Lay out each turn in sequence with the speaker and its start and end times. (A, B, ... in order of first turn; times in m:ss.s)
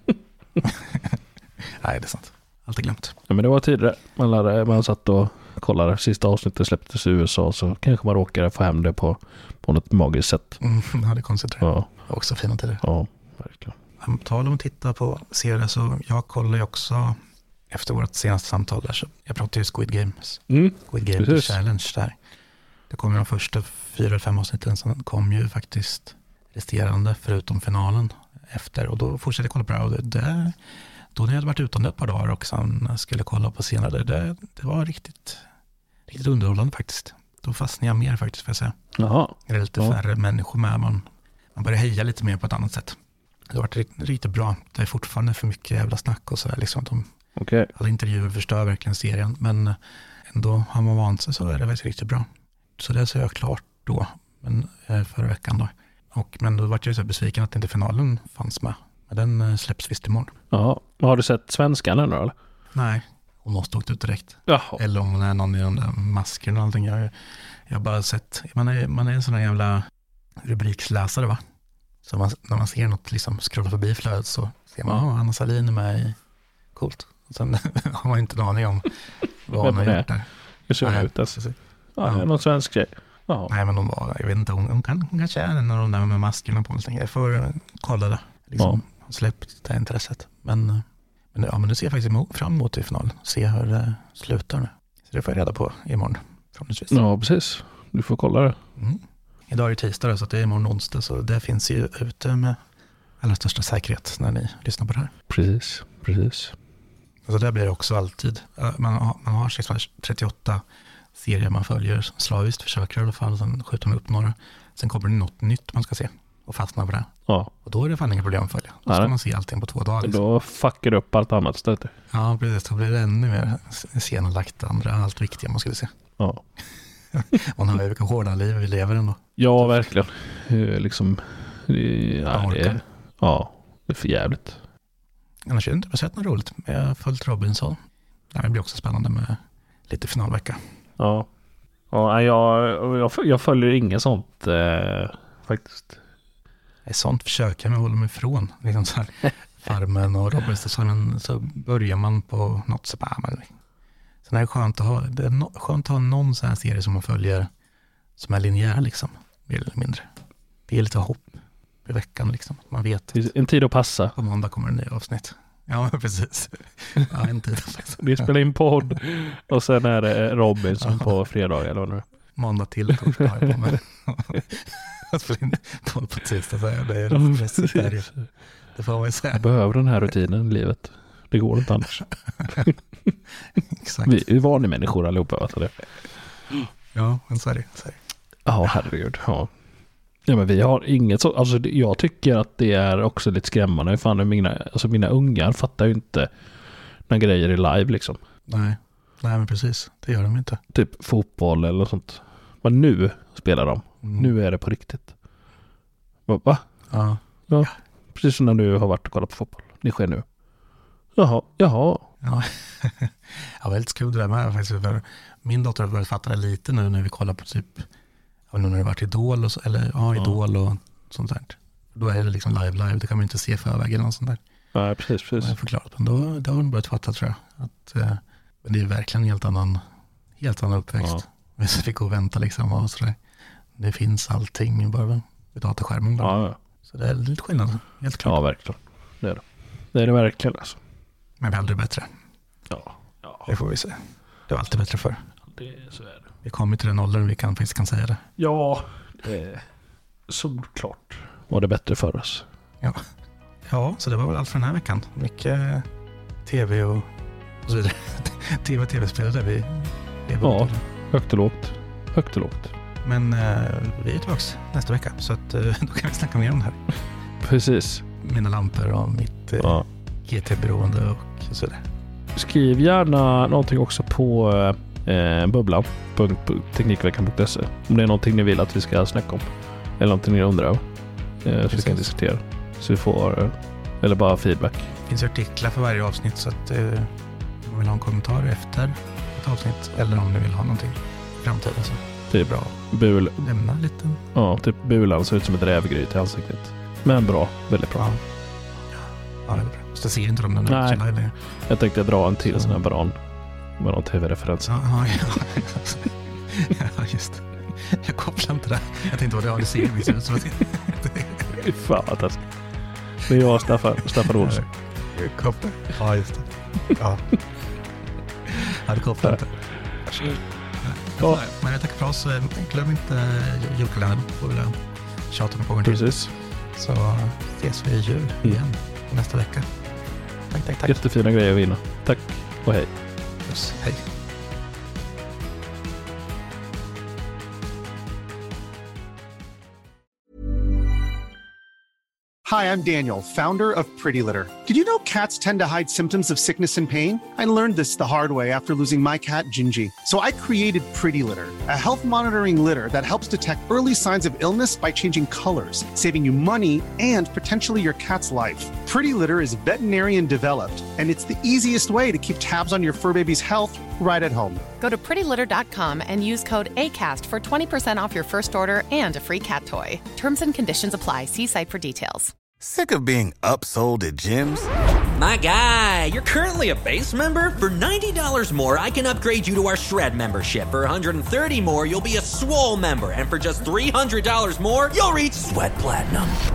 0:00.6-0:03.2 A
0:03.3-0:10.6 B
0:10.6-0:12.8 A
0:11.6-0:11.9 B
0:12.8-0:13.8 B
0:14.0-0:17.2 A
0:17.7-0:22.2 A
0:20.5-0:21.6 B
0:22.9-0:30.6 A
0:31.1-0:35.4 A
0:36.1-0:38.8 A
0:39.0-0:40.0 B
0:39.4-0:43.0 A
0:43.5-0:47.1 A
0:47.4-0:47.7 B
0:47.7-0:49.8 A
0:50.3-0:52.3 A
0:52.8-1:00.4 A
1:00.5-1:02.3 B
1:02.7-1:07.1 A
1:04.5-1:04.8 B
1:07.7-1:09.9 A
1:10.4-1:11.4 A
1:12.0-1:16.2 A
1:16.7-1:18.9 A
1:19.4-1:20.3 A
1:19.5-1:20.1 B
1:20.7-1:21.4 B
1:20.8-1:22.3 A
1:22.0-1:23.5 B
1:23.5-1:37.0 A
1:36.9-1:38.6 B
1:38.8-1:42.6 A
1:43.2-1:45.1 A
1:45.3-1:46.5 B
1:47.2-1:50.6 A
1:51.1-1:57.1 A
1:57.6-2:00.2 A
1:58.9-1:59.1 B
2:00.0-2:01.9 B
2:02.1-2:05.9 A
2:07.1-2:09.9 A
2:09.4-2:14.6 B
2:12.3-2:12.8 A
2:15.4-2:17.8 A
2:18.3-2:20.6 A
2:21.0-2:21.3 B
2:21.9-2:26.0 B
2:26.8-2:33.5 A
2:34.2-2:37.5 A
2:38.2-2:40.1 A
2:40.7-2:43.3 A
2:43.1-2:44.2 B
2:44.1-2:48.3 A
2:48.0-2:52.0 B
2:50.8-2:51.1 A
2:52.4-2:58.1 A
2:57.1-2:57.9 B
2:58.7-2:59.4 A
2:59.3-3:03.1 B
3:02.4-3:02.7 A
3:03.6-3:04.2 A
3:04.0-3:05.7 B
3:06.9-3:08.0 A
3:08.4-3:09.5 B
3:10.3-3:16.3 B
3:17.1-3:18.2 B
3:18.5-3:20.6 A
3:20.7-3:25.1 B
3:24.0-3:24.3 A
3:26.3-3:26.6 B
3:26.9-3:27.7 A
3:27.5-3:30.2 B
3:31.2-3:32.1 B
3:32.2-3:37.9 A
3:38.5-3:44.4 A
3:44.7-3:45.6 B
3:45.4-3:49.8 A
3:50.4-3:53.2 A
3:53.8-3:58.4 A
3:56.2-3:56.6 B
3:58.2-4:00.8 B
4:01.4-4:02.1 A
4:02.7-4:03.5 B
4:03.4-4:05.2 A
4:05.6-4:06.3 B
4:06.4-4:08.2 A
4:08.4-4:09.6 B
4:10.3-4:12.4 B
4:13.7-4:15.9 A
4:16.4-4:17.1 A
4:17.6-4:20.8 A
4:20.4-4:22.7 B
4:23.0-4:26.8 A
4:27.4-4:28.0 B
4:28.2-4:31.8 A
4:29.6-4:29.9 B
4:32.4-4:39.5 B
4:40.0-4:40.8 B
4:41.4-4:44.9 B
4:41.7-4:42.1 A
4:45.1-4:52.0 A
4:52.3-4:53.4 B
4:53.4-4:54.2 A
4:54.4-4:58.1 B
4:58.0-4:58.2 A
4:59.4-5:01.4 A
5:00.7-5:01.0 B
5:01.7-5:03.2 B
5:02.5-5:02.8 A
5:03.8-5:04.8 B
5:04.7-5:11.6 A
5:11.5-5:12.4 B
5:13.2-5:14.7 B
5:14.2-5:17.3 A
5:18.5-5:19.6 A
5:20.1-5:24.8 A
5:25.3-5:29.7 A
5:25.8-5:26.4 B
5:30.5-5:31.0 A
5:30.9-5:32.9 B
5:33.4-5:34.1 A
5:42.4-6:04.6 C
6:04.8-6:12.3 D
6:12.6-6:14.7 E
6:15.2-6:26.4 F